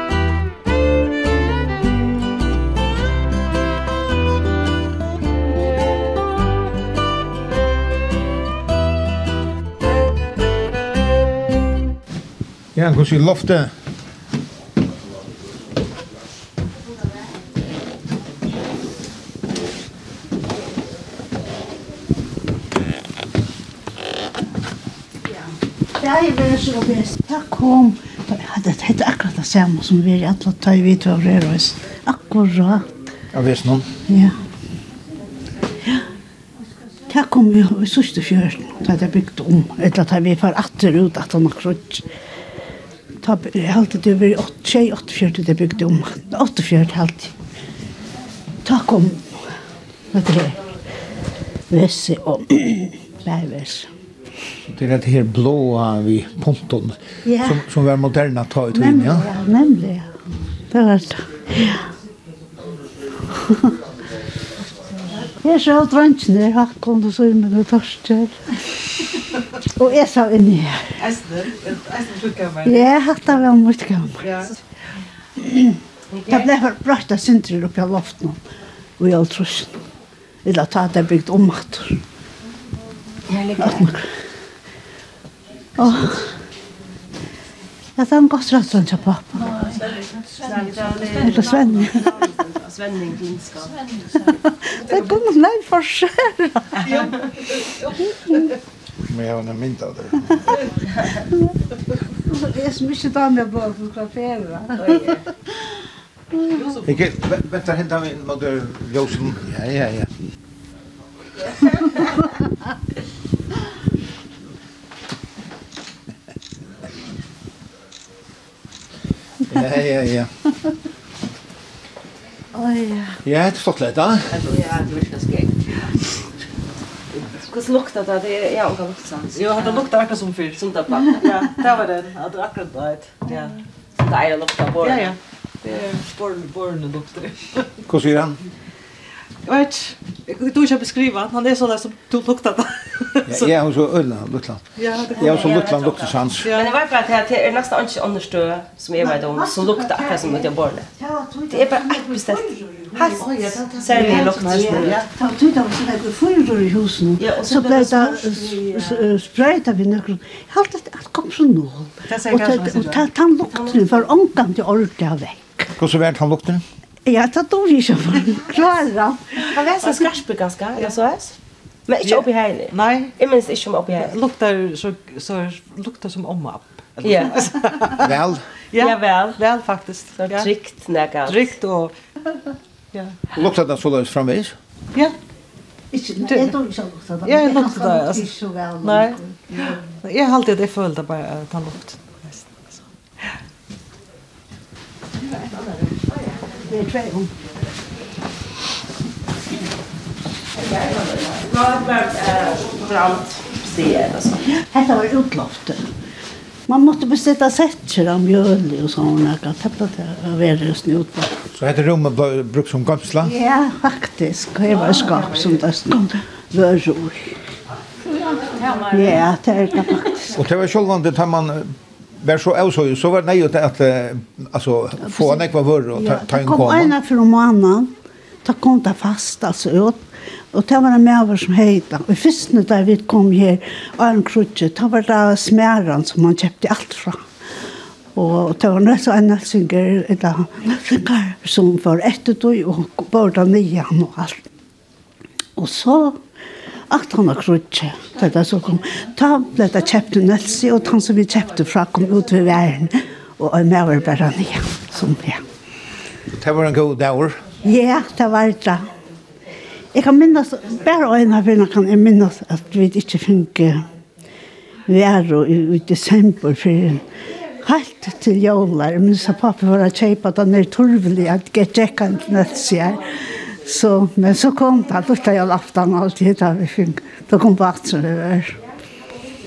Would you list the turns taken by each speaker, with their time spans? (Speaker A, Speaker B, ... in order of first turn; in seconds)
Speaker A: 12.8-13.7, 33.3-33.9, 54.7-59.3, 99.1-100.4, 106.8-110.1, 119.5-120.3, 123.2-124.3, 137.9-138.4, 143.3-144.6, 145.2-146.5, 165.8-166.6, 178.0-178.5, 183.3-184.6, 211.5-213.3, 220.4-226.9, 256.3-257.4
Speaker B: 25.9-33.0, 34.1-34.4, 37.1-42.0, 43.2-47.3, 48.6-49.3, 50.1-50.6, 51.7-53.9, 57.2-57.7, 58.7-60.1, 60.7-61.9, 63.3-63.7, 65.4-68.4, 69.8-71.0, 72.7-74.3, 75.4-75.8, 76.3-78.4, 79.0-79.8, 80.5-82.0, 83.6-84.1, 85.8-86.3, 88.0-89.8, 91.2-92.1, 94.6-97.1, 102.3-105.1, 122.5-123.2, 149.0-165.7, 167.1-169.4, 185.9-189.7, 196.7-197.3, 204.7-205.9, 206.7-211.3, 213.2-217.4, 218.9-220.4, 225.0-227.9, 228.4-230.0, 230.5-237.2, 238.2-244.4, 245.6-246.2, 246.9-255.4, 257.6-258.9, 259.9-263.9, 264.9-267.1, 267.6-278.6
Speaker C: 71.0-72.9, 74.2-74.5, 90.5-91.3, 129.3-133.6, 134.8-137.7, 139.4-143.5, 144.8-145.6, 146.4-146.8, 152.9-155.1, 162.1-163.0, 172.0-173.2, 174.0-178.1, 178.7-180.5, 181.3-181.9, 186.2-186.6, 187.2-188.3, 188.8-193.3, 218.7-219.2
Speaker D: 76.1-76.4, 83.3-83.8, 90.4-93.8, 104.8-105.2, 124.3-125.6, 127.3-129.9, 130.5-131.7, 134.0-135.2, 145.2-150.9, 151.5-155.0, 157.2-159.0, 169.5-171.4, 171.9-174.1, 177.0-177.4, 178.8-179.4, 180.1-181.6, 200.6-204.4